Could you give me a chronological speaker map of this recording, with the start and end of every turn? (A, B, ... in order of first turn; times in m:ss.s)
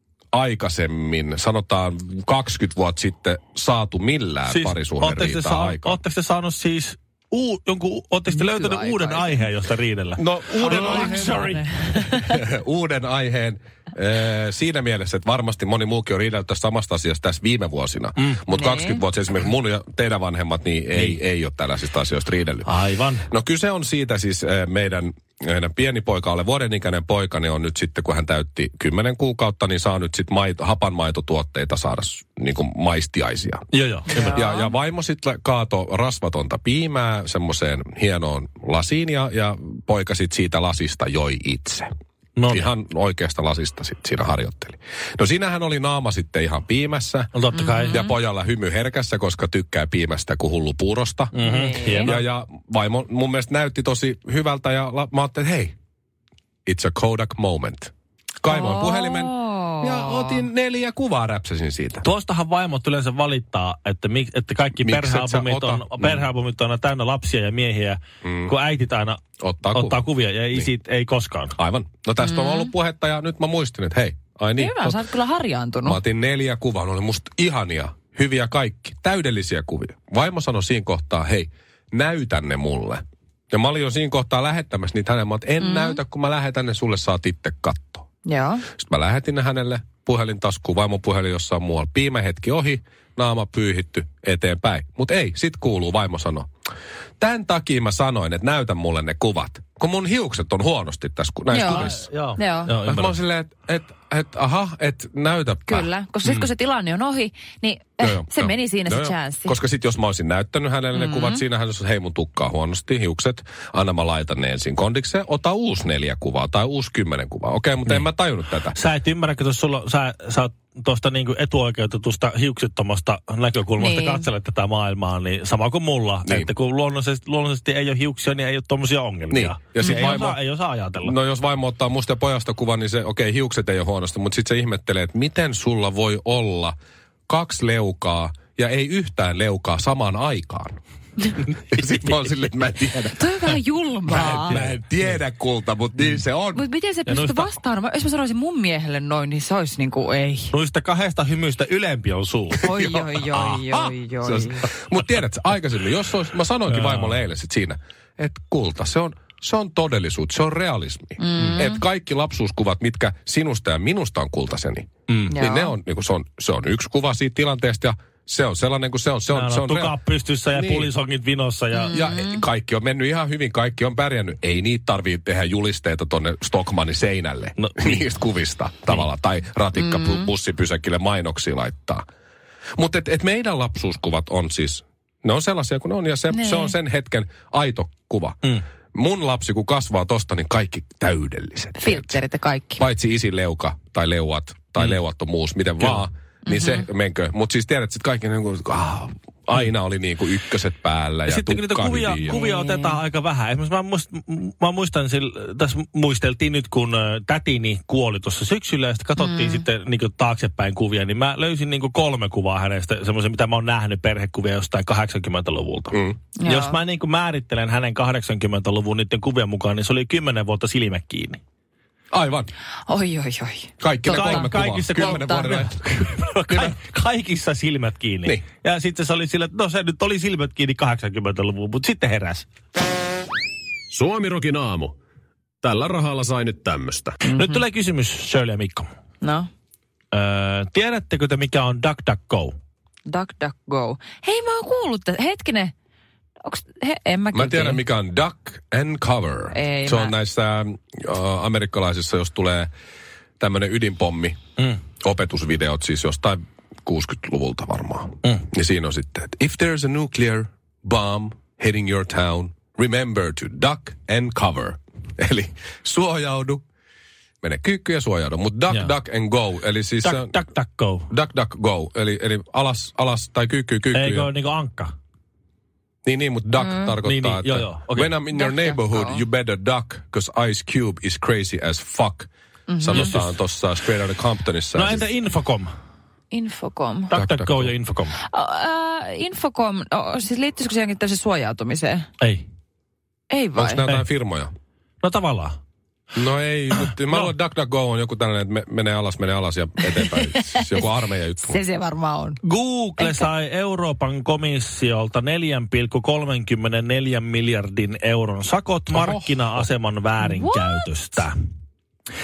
0:00.3-0:06.0 A
0:04.5-0:12.3 B
0:08.3-0:09.4 C
0:10.2-0:22.7 A
0:10.6-0:12.1 C
0:18.5-0:19.0 C
0:20.9-0:21.2 B
0:22.6-0:23.3 B
0:23.3-0:41.9 A
0:33.7-0:34.4 B
0:34.2-0:34.7 C
0:42.4-0:42.7 B
0:42.5-0:51.3 A
0:47.3-0:48.1 B
0:51.3-0:52.2 B
0:51.4-0:52.2 C
0:52.0-0:55.8 A
0:56.7-1:02.1 A
0:58.5-1:00.5 C
1:02.0-1:09.2 B
1:04.8-1:06.3 A
1:08.2-1:08.5 A
1:09.4-1:10.7 A
1:09.7-1:11.6 B
1:11.6-1:15.0 A
1:12.2-1:12.7 C
1:14.6-1:16.0 C
1:15.8-1:28.1 A
1:25.6-1:26.0 C
1:28.2-1:28.6 C
1:28.7-1:36.5 A
1:37.2-1:42.1 A
1:41.5-1:42.7 C
1:41.6-1:43.2 B
1:42.8-1:45.9 A
1:45.7-1:49.6 C
1:48.0-1:58.8 A
1:50.9-1:51.4 C
1:58.7-2:11.1 B
2:03.8-2:04.3 C
2:09.3-2:10.4 A
2:11.0-2:16.8 A
2:17.3-2:20.8 A
2:21.5-2:23.5 A
2:23.2-2:24.6 C
2:24.1-2:26.7 A
2:24.1-2:25.2 B
2:26.6-2:30.5 C
2:27.1-2:27.5 B
2:30.5-2:32.6 B
2:32.6-2:49.9 A
2:32.6-2:34.7 C
2:33.3-2:33.6 B
2:36.7-2:37.2 B
2:41.2-2:41.8 C
2:45.3-2:45.7 C
2:49.3-2:52.2 B
2:50.5-2:50.9 A
2:51.8-2:52.4 C
2:51.9-3:02.0 A
2:57.6-2:58.1 B
2:59.8-3:00.3 C
3:02.8-3:12.2 A
3:06.3-3:06.8 C
3:11.8-3:12.8 C
3:12.8-3:22.4 A
3:15.8-3:16.0 B
3:16.5-3:16.8 C
3:21.3-3:41.4 B
3:22.3-3:23.0 C
3:29.2-3:29.6 C
3:35.9-3:36.2 A
3:36.4-3:36.8 C
3:42.1-3:42.5 A
3:42.9-3:45.6 C
3:43.8-3:45.8 A
3:44.1-3:52.5 B
3:46.5-3:46.8 A
3:53.9-3:55.0 D
3:55.6-3:57.2 D
3:57.2-3:57.6 C
3:57.3-3:58.9 B
3:59.2-3:59.5 C
4:00.1-4:02.6 B
4:03.1-4:05.7 C
4:06.4-4:07.8 C
4:07.3-4:12.7 A
4:09.5-4:10.1 C
4:13.4-4:14.4 A
4:15.0-4:26.6 A
4:27.4-4:30.3 A
4:30.0-4:31.1 B
4:31.1-4:34.3 A
4:33.9-4:34.9 B
4:36.1-4:45.1 A
4:36.6-4:37.0 C
4:37.0-4:38.1 B
4:38.3-4:39.2 C
4:42.7-4:43.1 C
4:42.9-4:43.3 B
4:44.8-4:45.7 B
4:46.3-4:47.1 C
4:47.1-4:48.2 B
4:47.1-4:47.7 A
4:48.3-4:52.1 C
4:52.2-4:52.5 B
4:53.3-4:53.8 C
4:53.5-4:54.5 A
4:55.0-4:55.6 B
4:56.2-5:01.6 A
5:00.1-5:00.8 C
5:01.4-5:02.4 C
5:02.4-5:11.3 B
5:03.0-5:03.3 C
5:08.9-5:09.7 A
5:10.2-5:10.9 C